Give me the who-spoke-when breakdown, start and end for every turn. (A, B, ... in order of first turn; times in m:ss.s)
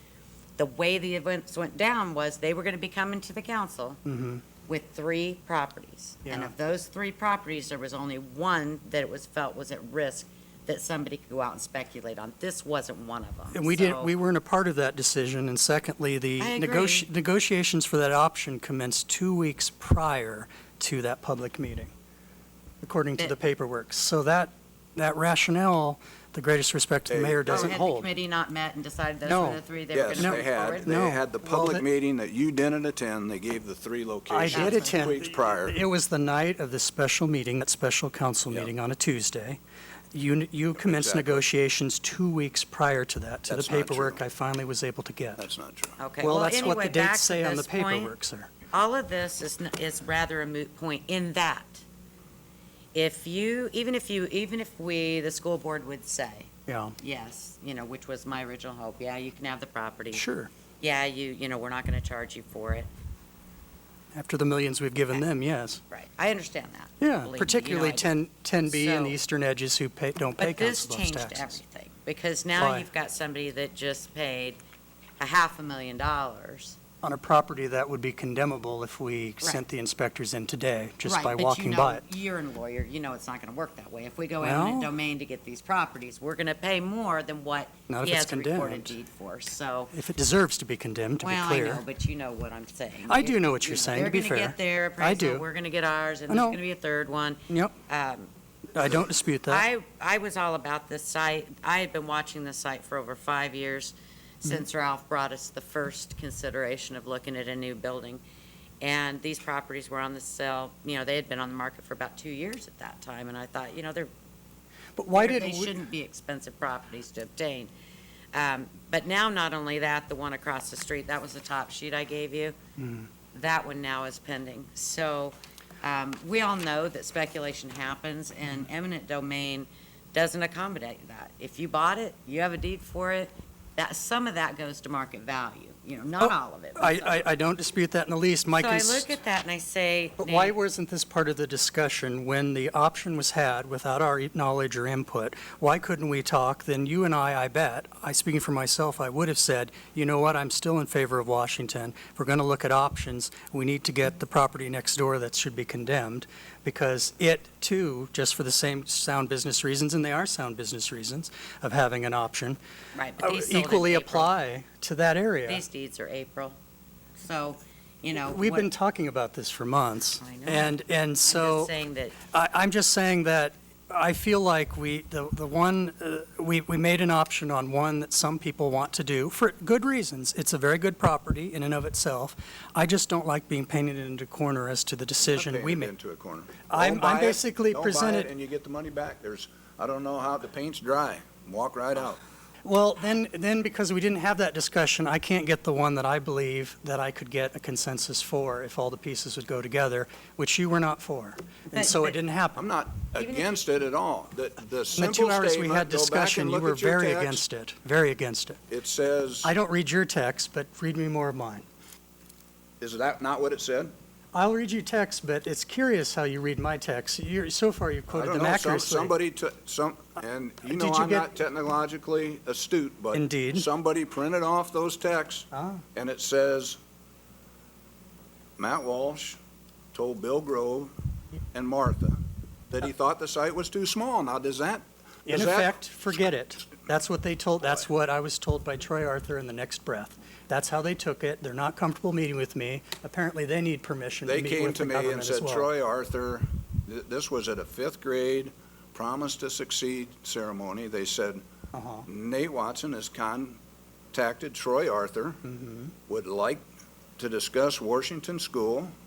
0:00.6-0:04.0 A
0:04.0-0:04.4 B
0:04.7-0:14.1 A
0:06.2-0:06.5 B
0:13.5-0:21.9 B
0:16.4-0:17.1 A
0:22.8-0:28.1 B
0:27.1-0:27.8 C
0:27.4-0:31.0 A
0:29.2-0:29.6 B
0:29.9-0:35.8 C
0:30.2-0:31.8 B
0:34.3-0:39.6 B
0:34.5-0:35.1 A
0:40.1-0:45.4 B
0:40.7-0:41.4 C
0:43.5-0:44.2 C
0:45.4-0:46.0 C
0:46.0-0:48.1 A
0:46.2-0:48.5 B
0:48.7-0:51.8 A
0:52.9-1:00.2 A
0:56.7-0:57.0 B
1:00.1-1:00.5 B
1:00.8-1:02.9 A
1:04.1-1:05.8 B
1:05.9-1:08.1 A
1:07.0-1:11.6 B
1:08.7-1:09.2 A
1:10.4-1:14.6 A
1:12.6-1:12.9 B
1:15.2-1:16.8 A
1:17.0-1:22.0 B
1:21.0-1:29.9 A
1:24.4-1:24.9 B
1:27.9-1:28.9 B
1:29.9-1:31.8 B
1:31.2-1:38.3 A
1:33.1-1:35.4 B
1:36.3-1:36.6 B
1:37.5-1:37.7 B
1:38.7-1:39.6 B
1:39.5-1:48.2 A
1:48.8-1:54.1 A
1:55.0-1:55.7 B
1:55.1-1:57.7 A
1:58.3-2:02.6 A
2:02.8-2:03.1 B
2:03.3-2:17.1 A
2:16.2-2:19.2 B
2:18.5-2:20.5 A
2:20.2-2:42.6 B
2:42.9-2:44.3 A
2:43.2-2:45.6 B
2:45.5-2:46.6 A
2:47.2-2:48.7 A
2:48.3-2:51.7 B
2:50.2-2:52.2 A
2:52.3-3:05.9 B
3:05.2-3:12.2 C
3:06.7-3:08.3 B
3:12.6-3:22.6 B
3:21.7-3:22.2 A
3:22.6-3:27.4 C
3:23.2-3:23.6 A
3:24.9-3:28.6 B
3:28.7-3:29.5 C
3:29.4-3:31.6 B
3:32.8-3:33.9 C
3:34.3-3:39.1 B
3:38.1-3:46.8 C
3:40.7-3:41.3 B
3:43.1-3:43.7 B
3:45.5-3:45.8 B
3:48.6-3:49.4 C
3:49.9-3:50.9 C
3:51.5-3:52.2 C
3:52.7-3:55.7 C
3:55.2-4:05.7 B
4:04.2-4:11.4 C
4:11.7-4:12.1 B
4:12.1-4:13.6 C
4:14.1-4:15.4 C
4:15.4-4:15.9 B
4:16.1-4:16.6 C
4:17.2-4:18.9 C